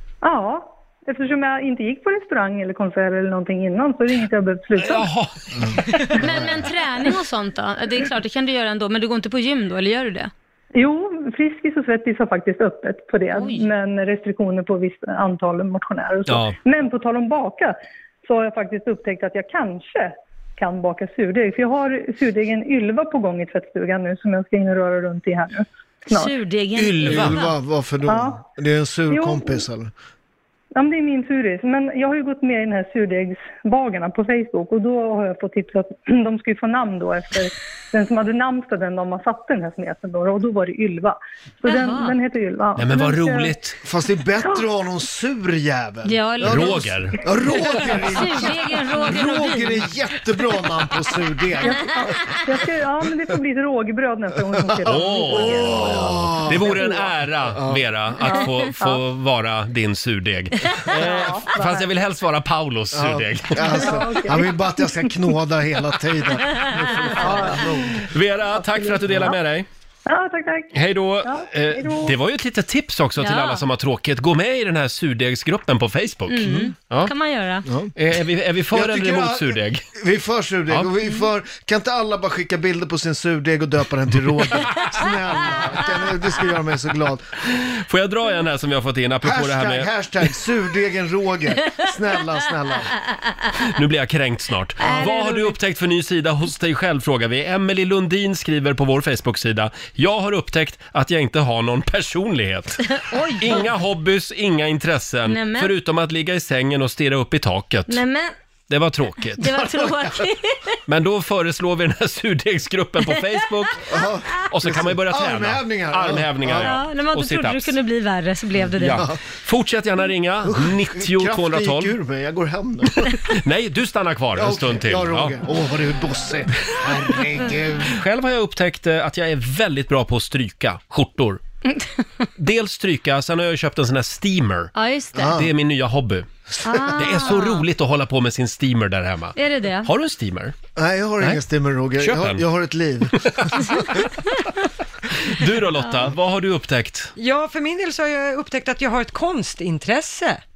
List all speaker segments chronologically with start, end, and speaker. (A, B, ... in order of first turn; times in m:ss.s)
0:00.2-0:05.1 A
0:04.8-0:06.3 B
0:06.1-0:10.3 C
0:10.7-0:26.3 A
0:13.3-0:13.6 C
0:16.3-0:16.6 B
0:26.1-0:27.5 C
0:26.7-0:29.9 D
0:27.0-0:27.4 B
0:28.0-0:28.4 A
0:29.1-0:29.6 A
0:30.7-0:43.6 A
0:41.7-0:42.1 C
0:42.8-0:43.8 B
0:43.8-0:52.1 D
0:46.0-0:49.9 C
0:46.4-0:47.2 B
0:51.6-0:57.1 A
0:52.1-0:52.4 C
0:54.8-0:56.8 D
0:54.8-1:04.0 B
0:57.4-0:57.8 D
1:00.9-1:01.9 A
1:02.9-1:08.1 D
1:03.6-1:05.3 A
1:06.5-1:07.0 C
1:07.1-1:08.0 A
1:08.0-1:09.7 B
1:08.6-1:09.2 A
1:10.1-1:12.2 A
1:10.7-1:17.1 B
1:13.2-1:13.6 C
1:16.3-1:17.7 C
1:16.4-1:16.7 D
1:17.6-1:17.9 D
1:17.9-1:19.8 B
1:18.7-1:27.3 D
1:27.5-1:29.9 B
1:29.2-1:32.9 D
1:33.7-1:48.0 B
1:34.8-1:35.5 C
1:42.9-1:43.6 C
1:45.3-1:45.7 C
1:47.9-1:48.3 C
1:48.7-1:49.7 B
1:49.4-1:50.6 C
1:50.9-1:53.8 B
1:53.9-1:56.7 D
1:54.5-1:57.7 B
1:56.5-1:59.1 C
1:58.6-1:59.2 D
1:58.8-2:02.0 B
2:00.5-2:03.2 D
2:03.3-2:05.4 B
2:04.3-2:08.0 D
2:07.8-2:11.4 B
2:12.4-2:14.7 B
2:14.7-2:15.4 C
2:15.2-2:15.5 D
2:15.2-2:16.3 B
2:16.5-2:17.0 D
2:16.6-2:17.6 C
2:16.9-2:20.5 B
2:19.4-2:19.9 C
2:20.8-2:23.7 D
2:22.0-2:22.4 B
2:23.1-2:24.0 B
2:25.2-2:27.1 B
2:27.2-2:30.4 E